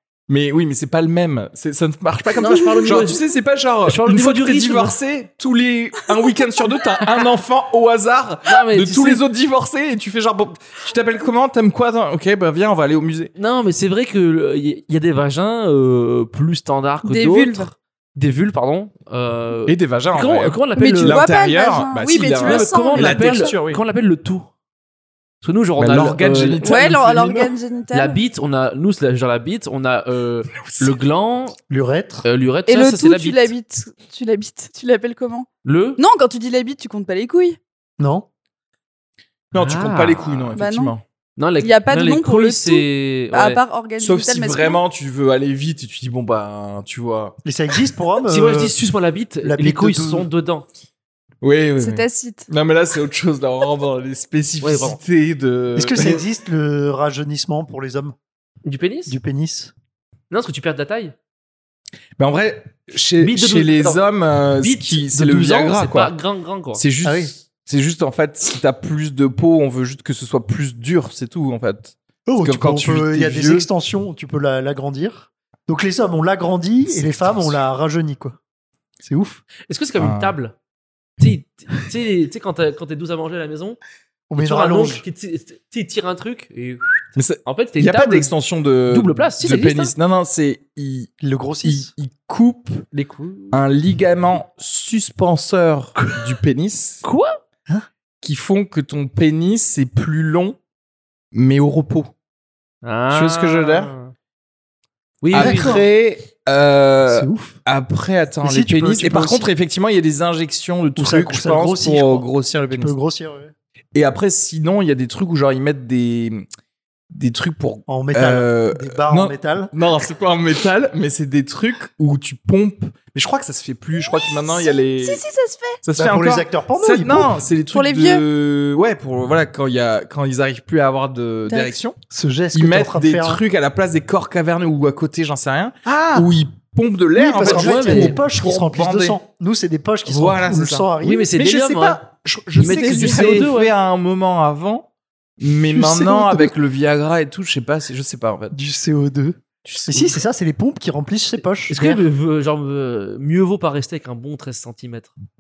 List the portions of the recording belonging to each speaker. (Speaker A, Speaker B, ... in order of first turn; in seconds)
Speaker A: 0.3-13.3, 19.7-23.8, 25.8-27.5, 30.6-30.9, 39.5-41.0, 44.0-47.4, 51.4-56.2, 62.2-66.2, 66.8-73.7, 76.9-77.5, 80.0-80.4, 87.2-91.1, 91.6-92.9, 93.5-97.0, 98.2-100.6, 101.3-102.1, 103.1-103.9, 105.3-113.0, 113.9-116.5, 117.1-125.2, 125.8-132.0, 132.5-139.2, 140.1-144.9, 145.4-148.6
Speaker B: 2.4-3.2, 3.9-5.0, 8.5-9.2, 13.4-21.2, 22.4-24.5, 25.4-26.6, 27.9-31.6, 32.2-33.5, 35.6-36.0, 39.5-40.5, 41.4-43.6, 48.3-50.7, 54.6-55.0, 58.6-59.1, 60.3-61.1, 63.2-64.0, 64.6-66.8, 79.7-80.5, 81.2-83.8, 84.4-88.3, 88.9-89.9, 92.9-93.6, 97.0-97.4, 102.8-104.1, 105.2-105.8, 137.4-138.2, 141.0-142.0, 142.6-143.7, 151.7-155.2
Speaker C: 17.0-17.7, 20.8-23.5, 26.6-28.2, 32.7-37.6, 40.5-40.9, 41.6-44.8, 51.8-52.5, 124.0-125.8, 127.7-128.2, 131.5-131.8
Speaker D: 31.7-32.3, 38.0-38.3, 47.5-48.8, 49.4-50.3, 55.8-58.1, 59.1-59.7, 67.0-67.3, 72.3-78.4, 79.0-79.4, 84.3-85.0, 91.2-91.9, 105.3-105.8, 107.1-107.6, 108.4-109.5, 111.0-113.5, 117.9-119.7, 126.0-127.3, 132.1-133.4, 136.0-136.3, 137.2-141.3, 142.6-143.5, 145.7-146.5, 148.5-152.0